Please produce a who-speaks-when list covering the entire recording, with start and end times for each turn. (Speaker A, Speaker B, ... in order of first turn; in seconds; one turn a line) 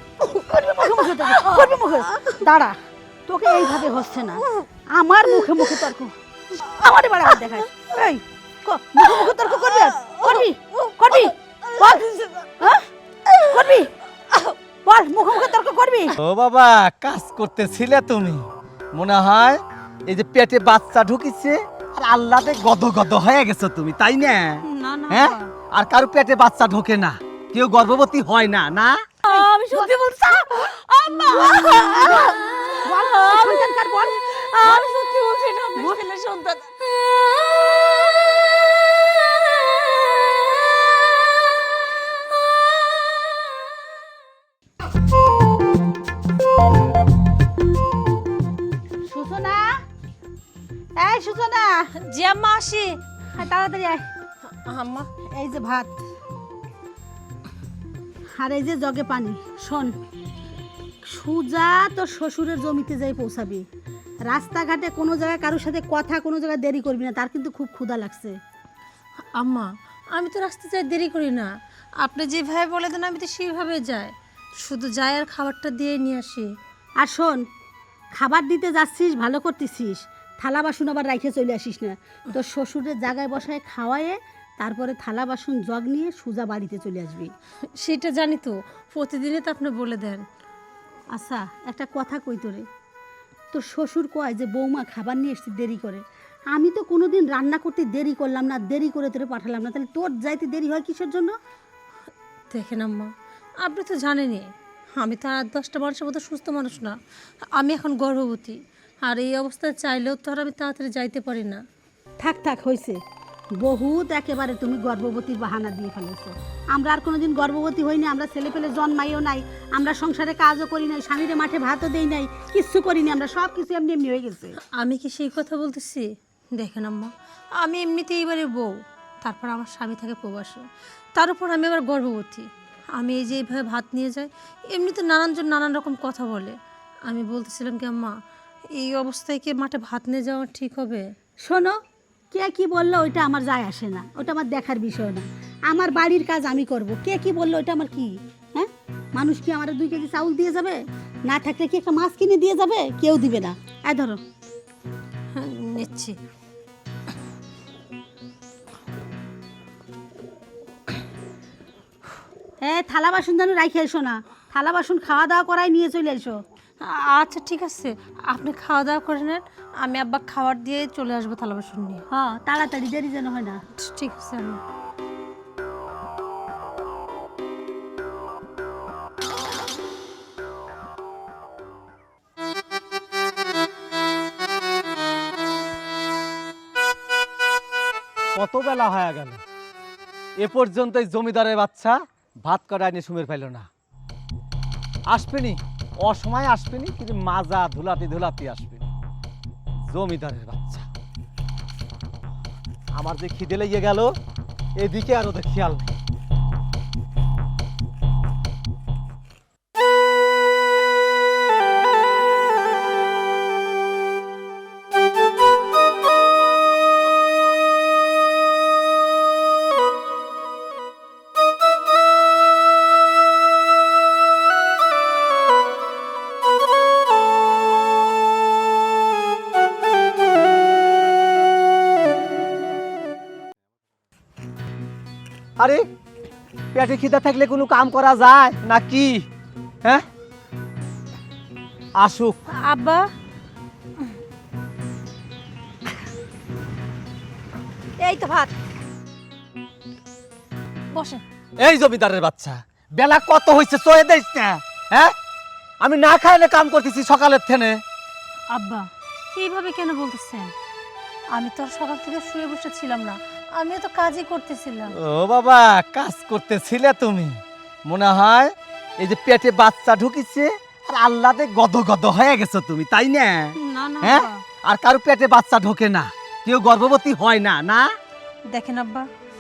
Speaker A: 0.3-2.8
Speaker B: 1.2-1.7
Speaker A: 3.3-12.9
Speaker B: 12.0-12.3
Speaker A: 13.4-13.9
Speaker A: 14.8-16.1
Speaker C: 16.2-29.0
Speaker B: 24.6-25.5
Speaker B: 29.2-36.7
Speaker A: 29.3-29.9
Speaker A: 31.4-34.9
Speaker A: 49.1-49.8
Speaker A: 51.0-51.9
Speaker B: 52.0-53.0
Speaker A: 53.3-54.1
Speaker B: 54.5-55.1
Speaker A: 55.3-56.0
Speaker A: 58.4-60.0
Speaker A: 61.1-63.6
Speaker A: 64.3-68.4
Speaker B: 69.4-71.5
Speaker B: 72.0-76.5
Speaker A: 77.0-77.4
Speaker A: 78.2-87.3
Speaker B: 87.8-90.2
Speaker A: 91.1-92.7
Speaker A: 93.5-101.3
Speaker B: 102.5-103.1
Speaker B: 103.6-107.0
Speaker B: 107.5-111.6
Speaker A: 112.2-113.0
Speaker A: 113.6-124.6
Speaker B: 124.7-130.7
Speaker B: 131.2-138.2
Speaker B: 138.8-141.1
Speaker A: 141.4-141.8
Speaker A: 142.3-154.2
Speaker B: 155.3-156.2
Speaker A: 162.6-166.4
Speaker B: 166.8-172.1
Speaker A: 172.1-173.6
Speaker B: 173.7-174.6
Speaker C: 188.3-189.4
Speaker C: 190.4-193.7
Speaker C: 195.1-198.9
Speaker C: 199.9-200.9
Speaker C: 203.0-204.1
Speaker C: 204.8-205.9
Speaker C: 235.6-235.9
Speaker C: 236.7-239.3
Speaker C: 242.0-242.4
Speaker B: 242.5-243.1
Speaker B: 248.0-248.5
Speaker B: 250.9-251.2
Speaker C: 251.6-255.1
Speaker C: 255.8-257.8
Speaker B: 258.5-260.5
Speaker B: 261.4-264.9
Speaker C: 265.0-277.9
Speaker B: 273.6-274.4
Speaker B: 278.5-279.1